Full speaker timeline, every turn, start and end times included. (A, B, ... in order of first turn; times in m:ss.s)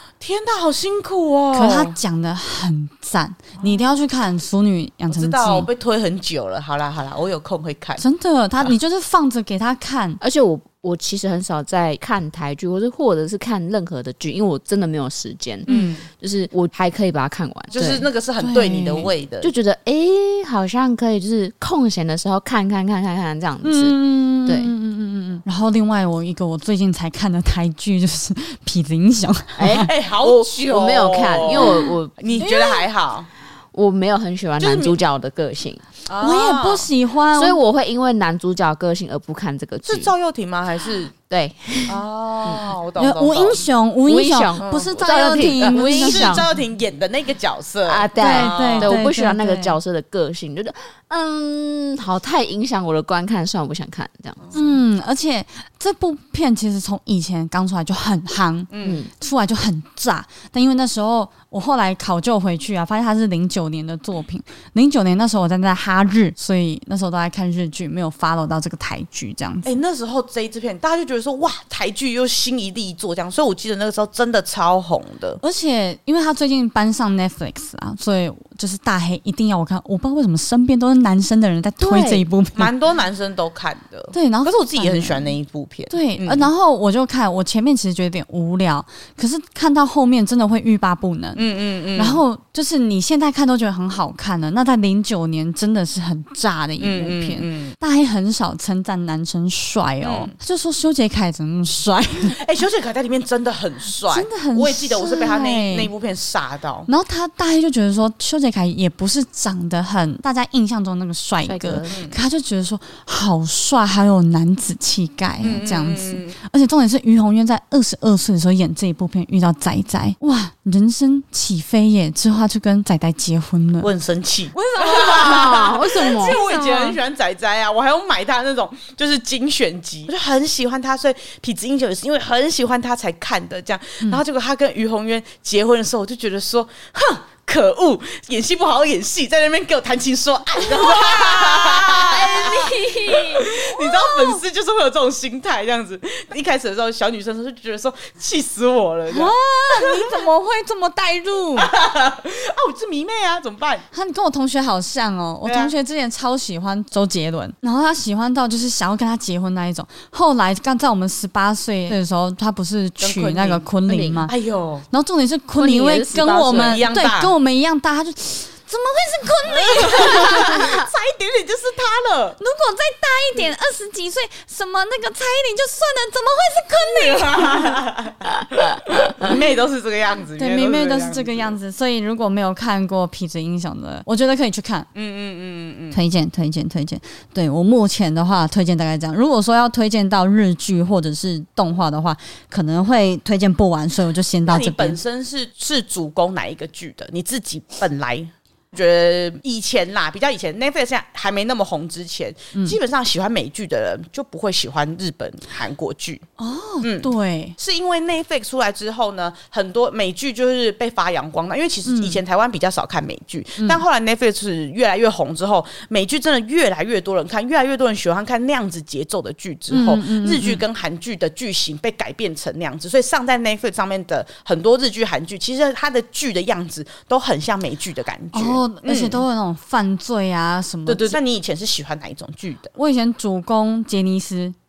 0:00.2-0:02.0 A
0:01.5-0:05.7 B
0:05.1-0:08.0 A
0:08.0-0:10.2 B
0:10.2-0:18.1 C
0:15.7-0:16.0 B
0:15.7-0:16.1 A
0:17.7-0:19.5 A
0:18.4-0:19.1 B
0:19.4-0:24.7 C
0:23.6-0:29.9 B
0:29.6-0:32.4 C
0:29.8-0:33.3 A
0:31.6-0:31.9 B
0:32.4-0:32.9 B
0:33.7-0:35.8 C
0:34.6-0:35.0 A
0:36.1-0:36.9 A
0:36.2-0:37.6 B
0:37.4-0:40.1 C
0:39.8-0:41.1 A
0:41.3-0:42.7 C
0:41.9-0:43.7 A
0:43.0-0:46.4 B
0:44.1-0:46.5 C
0:44.6-0:49.0 A
0:47.9-0:54.5 C
0:48.2-0:49.8 B
0:54.5-1:09.8 B
0:58.7-0:59.0 A
0:58.8-0:59.1 C
1:09.6-1:15.4 A
1:15.4-1:22.7 B
1:21.8-1:22.2 C
1:22.6-1:26.5 A
1:24.1-1:25.3 B
1:25.9-1:42.4 B
1:31.4-1:32.2 A
1:36.8-1:37.8 A
1:40.0-1:40.3 A
1:42.2-1:46.9 A
1:44.1-1:45.9 B
1:46.9-2:03.9 B
1:51.5-1:52.0 C
1:51.9-1:52.2 A
1:55.4-1:56.4 A
2:03.8-2:30.2 A
2:04.5-2:07.0 B
2:04.9-2:06.4 C
2:20.7-2:24.4 B
2:29.1-2:31.7 B
2:31.6-2:33.9 A
2:33.9-2:44.3 B
2:35.4-2:35.7 A
2:43.0-2:43.6 A
2:43.9-2:44.3 C
2:44.3-2:44.9 A
2:44.9-2:50.8 B
2:45.6-2:46.8 C
2:46.3-2:47.3 A
2:49.5-2:52.4 A
2:52.4-2:57.8 B
2:56.8-3:01.6 A
3:00.4-3:04.9 B
3:05.0-3:06.0 A
3:05.9-3:15.0 B
3:14.5-3:26.3 A
3:26.4-3:27.6 B
3:26.8-3:49.2 A
3:31.9-3:32.2 B
3:39.7-3:40.6 B
3:48.3-3:51.2 B
3:50.9-3:52.7 A
3:52.8-3:54.6 B